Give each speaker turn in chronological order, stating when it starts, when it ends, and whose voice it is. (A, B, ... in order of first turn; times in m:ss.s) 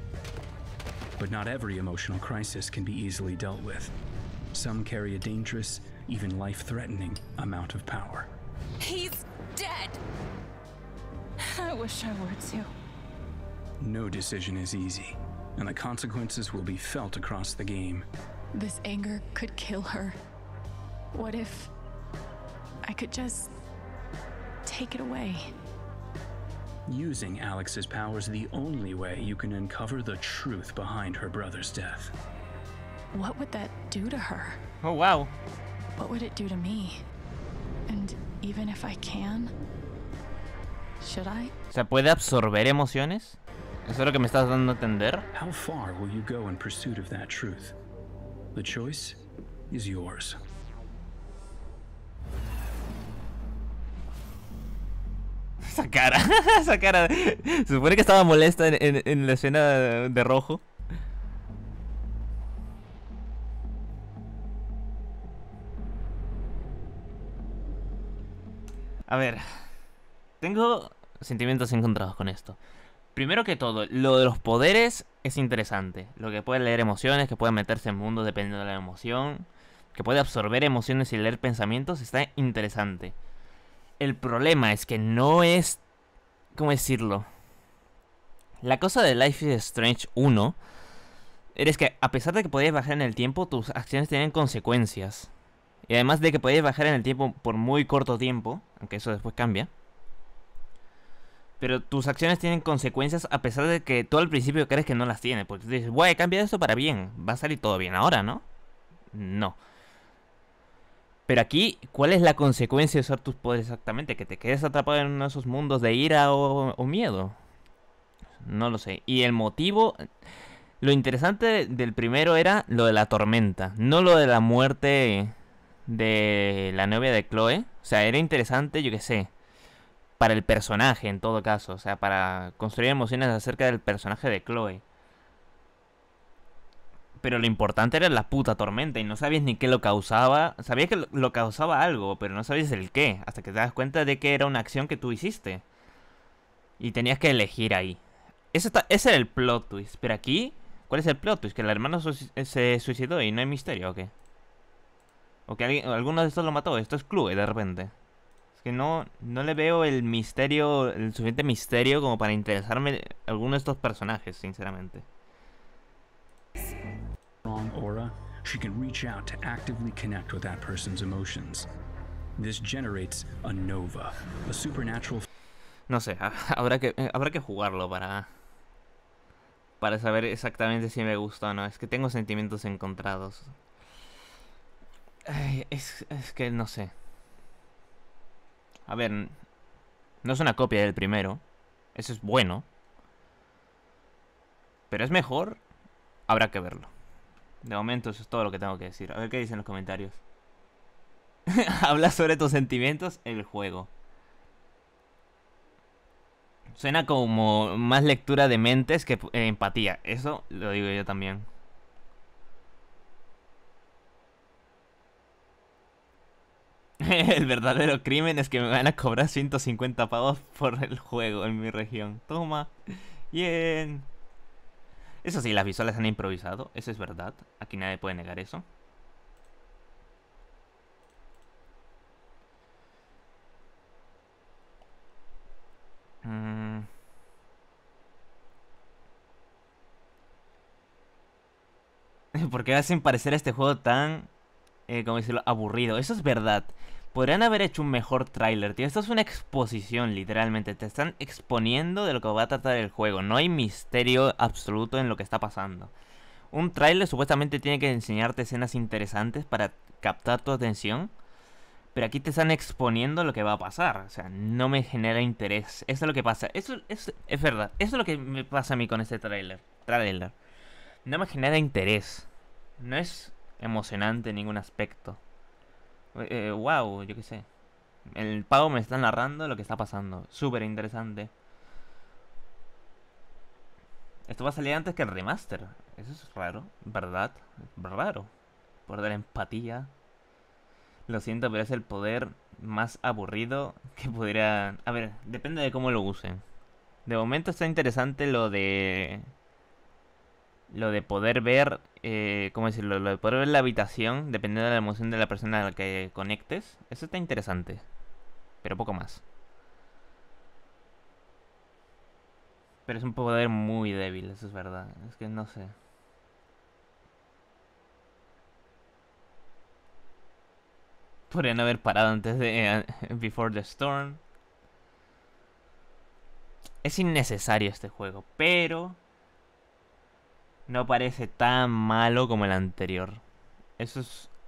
0:01.2-0:03.9 A
0:04.5-0:08.3 A
0:08.8-0:10.0 B
0:11.4-0:12.7 B
0:13.8-0:18.1 A
0:18.5-0:20.2 B
0:21.1-0:21.7 B
0:22.8-0:23.5 B
0:24.6-0:25.5 B
0:26.9-0:32.1 A
0:33.1-0:34.6 B
0:34.8-0:35.3 C
0:36.0-0:37.0 B
0:37.9-0:39.5 B
0:41.0-0:41.5 B
0:41.7-0:45.2 C
0:45.3-0:47.8 A
0:48.6-0:50.4 A
0:55.6-1:00.6 C
1:09.1-1:09.4 C
1:10.4-1:12.6 C
1:13.2-1:23.2 C
1:24.0-1:25.8 C
1:26.6-1:27.3 C
1:28.6-1:30.6 C
1:31.5-1:35.3 C
1:35.9-1:39.7 C
1:41.6-1:48.4 C
1:49.1-1:49.6 C
1:51.3-1:57.4 C
1:58.4-2:00.0 C
2:00.8-2:05.3 C
2:05.9-2:09.3 C
2:10.2-2:14.8 C
2:17.2-2:25.6 C
2:26.8-2:28.0 C
2:28.5-2:34.1 C
2:35.5-2:37.9 C
2:38.6-2:45.1 C
2:47.4-2:51.7 A
2:52.4-2:55.3 A
2:55.9-2:58.3 C
2:59.8-3:03.5 C
3:05.3-3:06.9 C
3:08.9-3:09.4 C
3:10.2-3:11.4 C
3:12.0-3:12.7 C
3:14.9-3:15.6 C
3:16.3-3:16.9 C
3:17.6-3:20.2 C
3:21.5-3:23.9 C
3:26.8-3:31.5 C
3:37.0-3:42.7 C
3:43.3-3:44.1 C
3:45.2-3:48.6 C
3:56.2-3:56.9 C
4:02.3-4:04.3 C
4:04.9-4:15.9 C
4:16.5-4:21.1 C
4:21.9-4:30.4 C
4:31.1-4:32.3 C
4:32.8-4:35.2 C
4:36.2-4:37.5 C
4:38.1-4:41.3 C
4:44.3-4:48.3 C
4:48.9-4:49.9 C
4:51.1-4:56.4 C
4:57.1-4:59.3 C
5:00.7-5:07.8 C
5:08.6-5:09.2 C
5:12.9-5:15.8 C
5:21.3-5:24.2 C
5:26.8-5:29.0 C
5:30.7-5:33.2 C
5:33.8-5:34.3 C